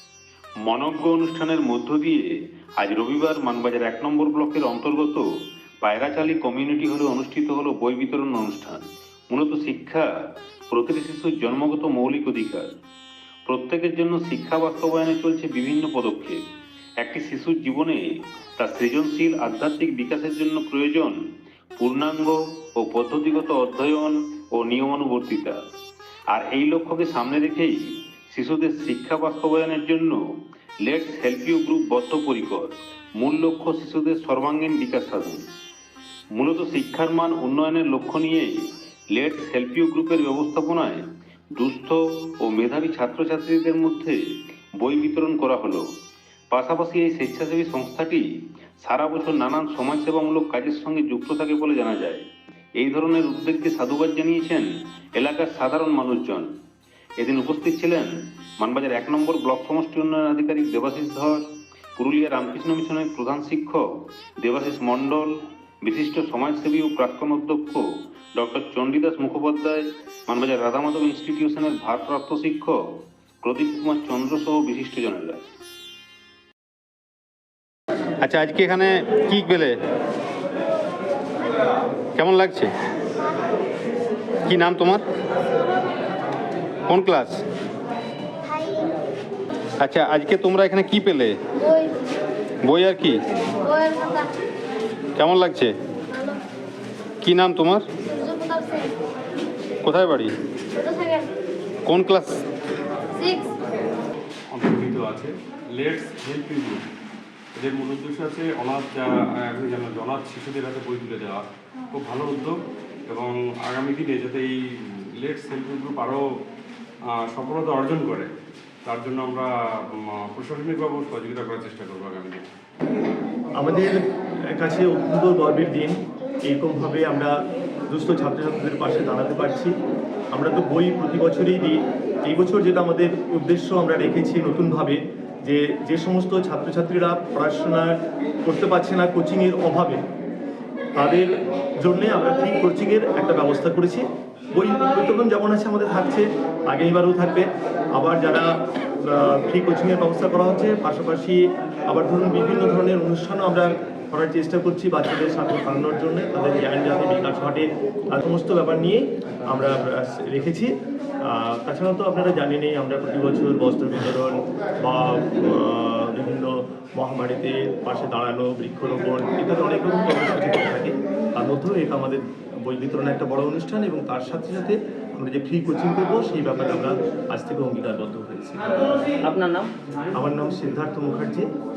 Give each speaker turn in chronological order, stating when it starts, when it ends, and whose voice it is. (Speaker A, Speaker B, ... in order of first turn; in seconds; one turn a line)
Speaker A: 0.6-2.3
Speaker A: 2.8-5.2
Speaker A: 5.8-10.1
Speaker A: 10.7-12.7
Speaker A: 13.5-16.4
Speaker A: 17.0-21.2
Speaker A: 21.8-25.6
Speaker A: 26.3-30.2
Speaker A: 30.8-35.5
Speaker A: 36.3-45.9
Speaker A: 46.5-48.2
Speaker A: 48.8-52.2
Speaker A: 52.8-56.5
Speaker A: 57.2-63.8
Speaker A: 64.4-67.8
Speaker A: 68.4-75.4
Speaker B: 78.2-79.7
Speaker B: 82.2-82.7
Speaker B: 84.5-85.0
Speaker B: 86.9-87.4
Speaker C: 88.5-88.9
Speaker B: 89.8-91.3
Speaker C: 91.6-92.0
Speaker B: 92.7-93.2
Speaker C: 93.6-94.3
Speaker B: 95.2-95.7
Speaker C: 96.1-96.4
Speaker B: 97.2-97.8
Speaker C: 98.0-98.9
Speaker B: 99.8-100.3
Speaker C: 100.7-101.3
Speaker B: 101.9-102.3
Speaker C: 103.1-103.6
Speaker D: 104.6-105.2
Speaker D: 105.8-106.8
Speaker D: 107.6-111.4
Speaker D: 111.9-112.5
Speaker D: 113.1-114.5
Speaker D: 115.2-116.2
Speaker D: 117.2-118.3
Speaker D: 118.8-119.5
Speaker D: 120.0-122.4
Speaker E: 123.6-124.0
Speaker E: 124.5-127.3
Speaker E: 127.9-129.7
Speaker E: 130.3-140.0
Speaker E: 140.9-148.4
Speaker E: 149.0-160.7
Speaker E: 161.3-178.9
Speaker E: 180.2-181.4